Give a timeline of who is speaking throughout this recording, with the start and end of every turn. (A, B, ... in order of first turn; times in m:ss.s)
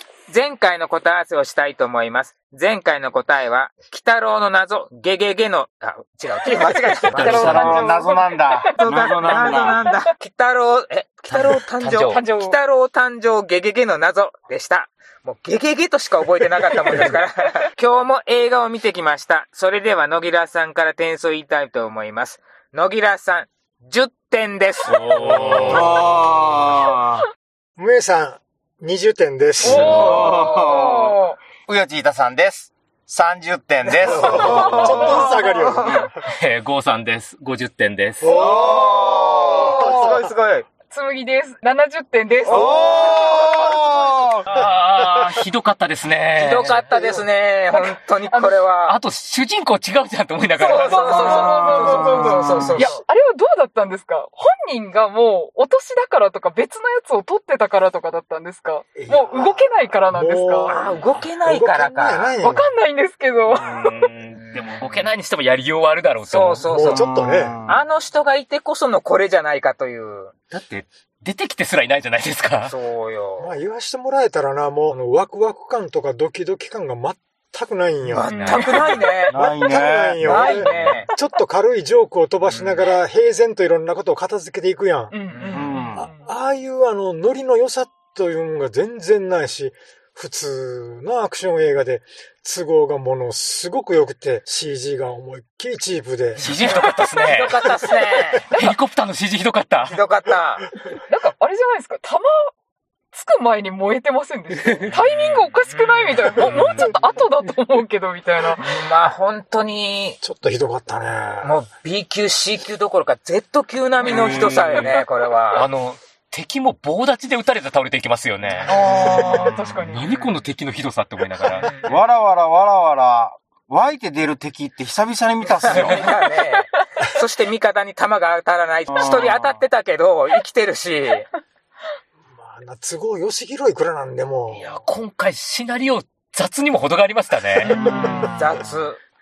0:00.3-0:07.8 A
0:07.0-0:10.1 B
0:07.1-0:09.8 C
0:08.8-0:25.7 A
0:11.3-0:12.2 D
0:12.0-0:12.6 B
0:24.9-0:26.0 D
0:25.2-0:26.2 E
0:25.6-0:27.2 C
0:27.8-0:29.9 E
0:29.6-0:31.4 B
0:29.7-0:30.0 D
0:29.7-0:35.1 C
0:33.9-0:36.1 A
0:34.1-0:36.2 E
0:34.7-0:35.3 B
0:36.2-0:38.4 D
0:38.2-0:38.9 E
0:38.2-0:40.1 C
0:38.3-0:40.6 A
0:39.7-0:40.2 E
0:40.9-0:43.6 B
0:42.4-0:42.8 A
0:42.5-0:44.6 C
0:44.4-0:46.9 D
0:46.4-0:49.0 A
0:47.7-0:48.6 B
0:48.8-0:51.6 D
0:50.5-1:00.8 B
0:50.6-0:53.0 A
0:51.9-0:52.8 C
0:58.9-1:02.7 E
1:00.6-1:02.4 A
1:02.4-1:04.0 B
1:03.5-1:06.7 D
1:04.4-1:04.9 A
1:06.2-1:07.1 A
1:06.7-1:07.6 E
1:06.9-1:07.8 C
1:07.7-1:10.3 A
1:10.5-1:12.7 D
1:12.6-1:13.5 A
1:13.4-1:18.4 E
1:18.0-1:19.4 A
1:18.2-1:19.1 B
1:18.3-1:19.0 D
1:19.3-1:20.9 C
1:19.3-1:25.1 E
1:20.2-1:21.1 A
1:22.4-1:22.9 A
1:25.1-1:26.3 B
1:25.3-1:25.6 A
1:25.5-1:26.1 C
1:26.0-1:36.6 E
1:36.4-1:37.6 D
1:36.6-1:37.0 B
1:37.2-1:38.5 A
1:37.6-1:37.9 E
1:38.5-1:40.0 D
1:38.5-1:38.8 B
1:39.9-1:40.6 A
1:41.1-1:42.5 B
1:43.1-1:48.9 B
1:44.6-1:45.0 D
1:45.7-1:46.5 A
1:46.4-1:46.9 D
1:48.5-1:50.2 A
1:50.2-1:51.6 E
1:51.4-1:55.7 A
1:54.0-1:54.9 B
1:54.0-1:54.9 D
1:55.5-1:58.8 D
1:58.6-2:00.1 B
1:58.8-2:00.4 A
1:59.8-2:01.7 D
2:01.6-2:01.9 A
2:01.8-2:06.0 C
2:05.6-2:11.3 A
2:05.7-2:06.0 D
2:06.0-2:06.4 B
2:08.9-2:09.6 C
2:12.3-2:14.7 E
2:14.5-2:17.8 D
2:17.6-2:18.3 B
2:17.8-2:18.6 C
2:17.8-2:18.2 E
2:18.3-2:19.0 A